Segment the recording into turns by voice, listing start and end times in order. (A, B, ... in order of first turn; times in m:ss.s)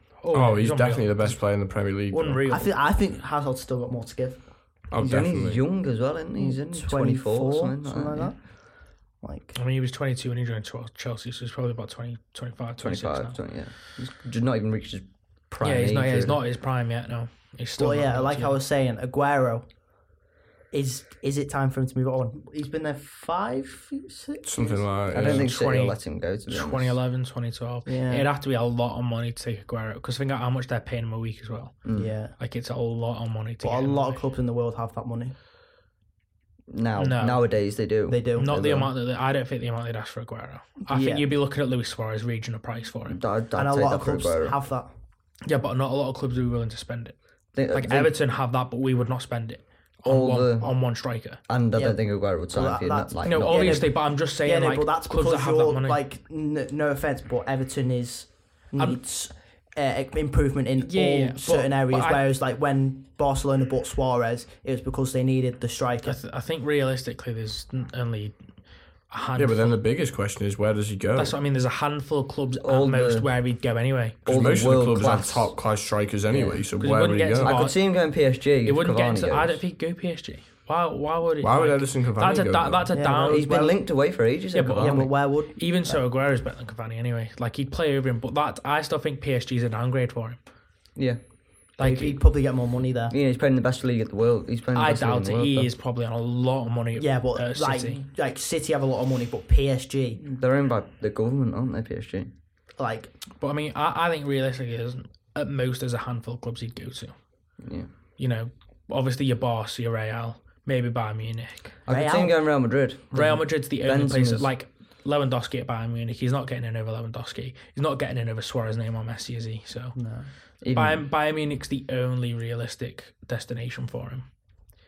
0:00.2-0:01.5 A
0:00.3-0:02.4 B
0:02.1-0:02.7 A
0:02.5-0:04.8 C
0:04.9-0:05.7 B
0:05.0-0:08.4 D
0:06.4-0:09.5 C
0:09.5-0:13.4 A
0:12.8-0:16.4 D
0:15.6-0:18.6 A
0:17.8-0:20.2 C
0:20.7-0:24.9 C
0:24.4-0:25.5 B
0:25.1-0:27.0 D
0:25.2-0:34.2 A
0:27.8-0:28.3 C
0:31.8-0:32.1 D
0:31.9-0:32.4 C
0:33.6-0:35.3 C
0:36.7-0:38.9 D
0:37.0-0:37.8 A
0:38.1-0:38.6 C
0:38.4-0:43.2 A
0:40.8-0:41.3 C
0:43.1-0:44.6 D
0:43.5-0:44.9 C
0:45.4-0:51.4 A
0:47.5-0:48.2 D
0:50.0-0:53.9 D
0:51.7-1:06.2 C
0:53.2-0:56.0 A
0:58.8-0:59.0 A
1:00.8-1:02.2 A
1:06.0-1:09.8 A
1:09.4-1:11.4 B
1:11.2-1:14.2 A
1:12.6-1:13.3 D
1:14.2-1:15.6 D
1:14.2-1:17.6 B
1:16.3-1:16.7 D
1:16.8-1:23.7 A
1:17.4-1:19.6 D
1:21.4-1:22.8 B
1:22.9-1:23.8 C
1:23.2-1:25.2 D
1:24.5-1:30.4 A
1:24.8-1:26.0 C
1:30.9-1:31.4 D
1:31.8-1:32.2 A
1:31.8-1:33.2 C
1:33.1-1:35.7 D
1:34.7-1:38.1 A
1:37.0-1:40.2 C
1:40.2-1:42.3 D
1:42.8-1:43.1 C
1:43.4-1:47.2 A
1:47.6-1:47.9 D
1:48.2-1:51.8 A
1:51.8-1:54.5 D
1:51.9-1:52.4 C
1:53.1-2:04.4 A
1:59.9-2:00.3 C
2:00.6-2:01.1 D